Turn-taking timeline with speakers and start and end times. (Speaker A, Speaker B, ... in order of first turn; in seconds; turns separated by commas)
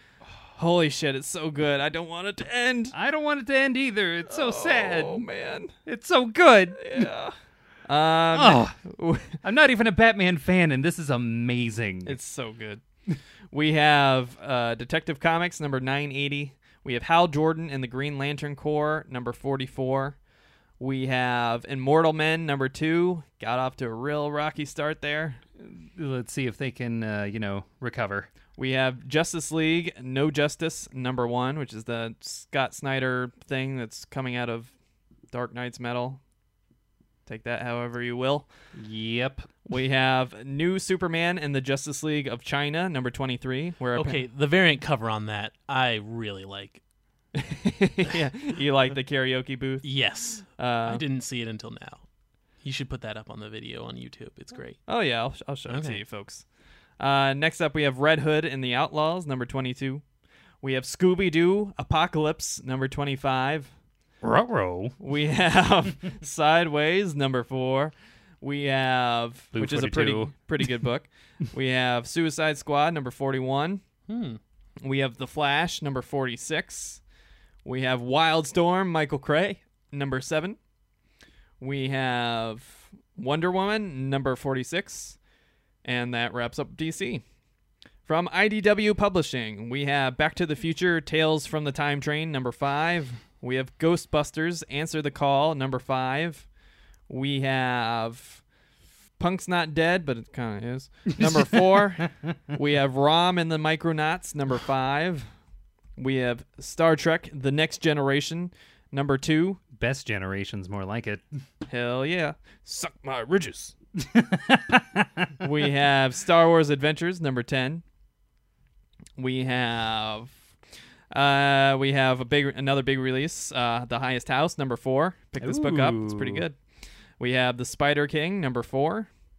Speaker A: 0.6-2.9, Speaker B: 2.9-5.2, Speaker A: 4.3-5.7, Speaker B: 5.8-7.1, Speaker A: 6.8-7.3, Speaker A: 7.9-9.4, Speaker B: 8.3-8.8, Speaker B: 9.4-12.2, Speaker A: 12.1-12.8, Speaker A: 13.5-20.2, Speaker A: 20.8-25.4, Speaker B: 25.6-28.3, Speaker A: 28.6-34.7, Speaker A: 35.3-36.2, Speaker A: 37.2-38.5, Speaker B: 38.7-39.5, Speaker A: 39.7-44.2, Speaker C: 44.0-46.8, Speaker A: 47.3-49.9, Speaker C: 49.8-52.0, Speaker A: 50.5-51.0, Speaker C: 52.6-54.8, Speaker A: 54.9-56.4, Speaker C: 55.7-56.0, Speaker A: 57.0-60.0, Speaker A: 60.6-63.7, Speaker B: 64.2-65.0, Speaker A: 65.0-73.8, Speaker B: 69.5-70.3, Speaker C: 74.1-74.4, Speaker A: 74.8-77.0, Speaker A: 77.6-80.6, Speaker A: 81.6-85.2, Speaker A: 85.8-87.2, Speaker A: 88.0-96.5, Speaker A: 97.1-98.4, Speaker A: 99.2-105.3, Speaker B: 101.2-101.6, Speaker A: 106.0-109.6, Speaker B: 109.7-111.2, Speaker A: 111.7-113.7, Speaker B: 114.0-115.3, Speaker A: 115.4-117.8, Speaker A: 119.2-120.4, Speaker A: 121.1-126.6, Speaker B: 125.4-126.4, Speaker A: 127.2-129.1